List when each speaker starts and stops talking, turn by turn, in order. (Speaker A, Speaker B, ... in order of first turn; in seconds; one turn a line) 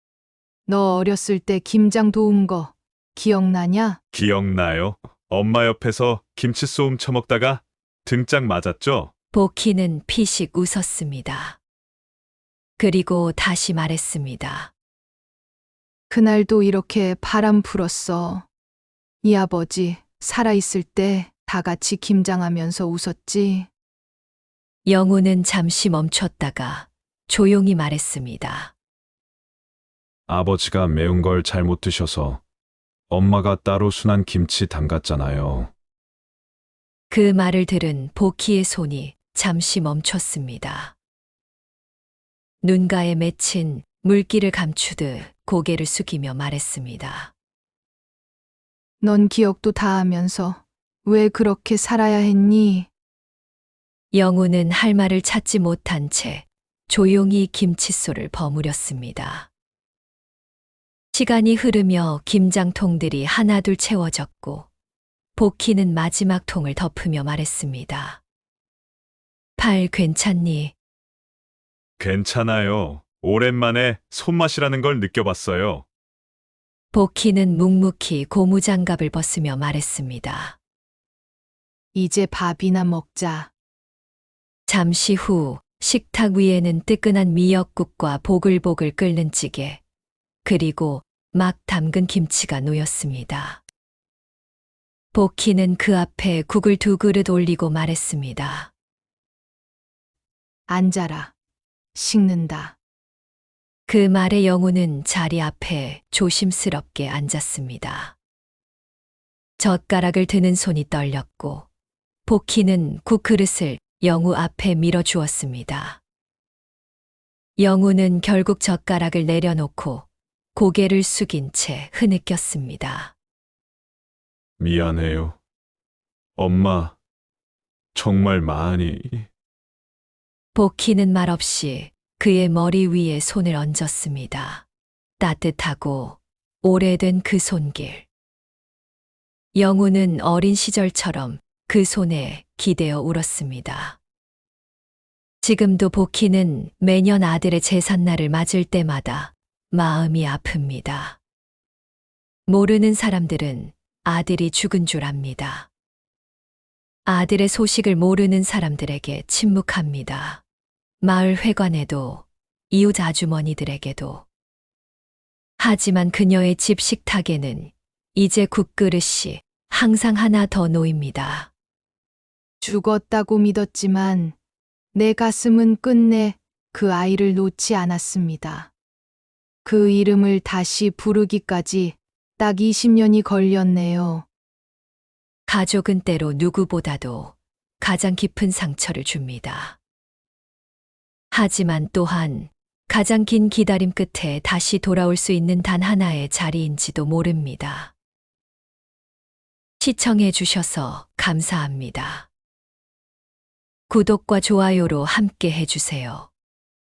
Speaker A: 0.7-4.0
Speaker B: 4.1-9.1
Speaker C: 9.3-11.6
Speaker C: 12.8-14.7
Speaker A: 16.1-18.4
Speaker A: 19.2-23.7
Speaker C: 24.9-28.7
Speaker B: 30.3-32.4
Speaker B: 33.1-35.7
Speaker C: 37.1-40.9
Speaker C: 42.6-47.3
Speaker A: 49.0-52.9
Speaker C: 54.1-59.5
Speaker C: 61.1-64.7
Speaker C: 65.3-68.2
Speaker C: 69.6-70.7
Speaker B: 72.0-75.8
Speaker C: 76.9-80.6
Speaker A: 81.9-83.5
Speaker C: 84.7-89.8
Speaker C: 90.4-93.6
Speaker C: 95.1-98.7
Speaker A: 100.7-101.3
Speaker A: 101.9-102.8
Speaker C: 103.9-108.2
Speaker C: 109.6-111.7
Speaker C: 112.2-116.0
Speaker C: 117.6-123.1
Speaker B: 124.6-125.4
Speaker B: 126.4-127.0
Speaker B: 127.9-129.3
Speaker C: 130.5-134.7
Speaker C: 135.2-138.1
Speaker C: 139.6-144.0
Speaker C: 145.4-151.2
Speaker C: 152.5-155.7
Speaker C: 157.1-160.4
Speaker C: 161.0-164.2
Speaker C: 165.6-171.5
Speaker A: 172.6-174.3
Speaker A: 174.9-178.7
Speaker A: 179.6-184.2
Speaker C: 185.5-189.8
Speaker C: 191.3-197.9
Speaker C: 199.8-202.3
Speaker C: 203.9-206.3